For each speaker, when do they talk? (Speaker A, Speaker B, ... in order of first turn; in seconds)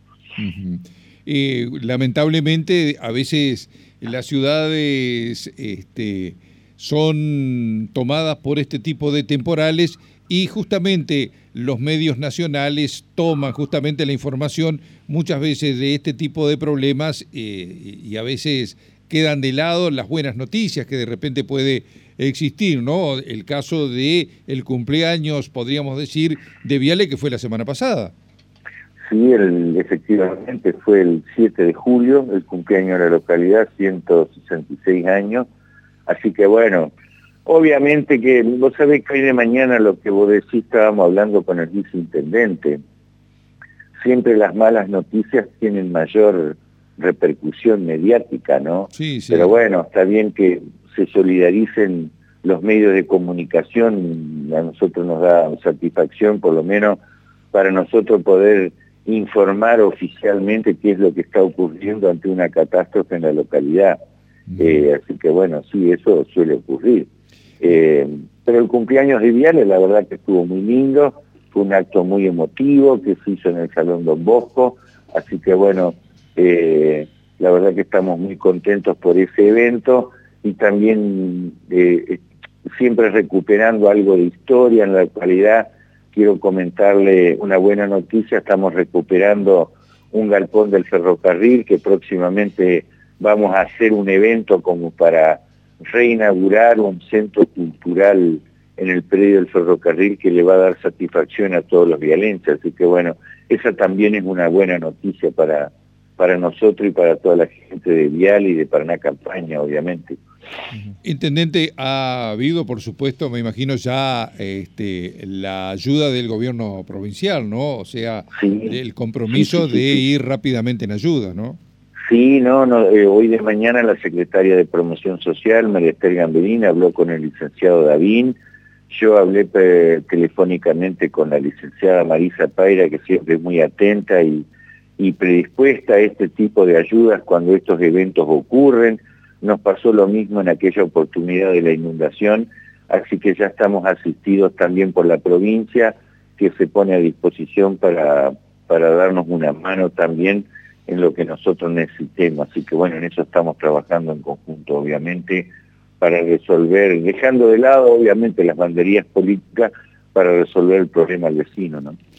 Speaker A: 0.4-28.1, 48.9-49.5, 64.5-64.8, 111.0-121.6
Speaker B: 29.1-35.5, 36.1-36.9, 37.4-42.8, 44.0-57.0, 57.5-64.0, 64.6-67.1, 67.6-110.2, 118.3-118.8, 119.3-120.0, 122.1-128.3, 128.9-134.5, 135.0-155.5, 156.0-162.0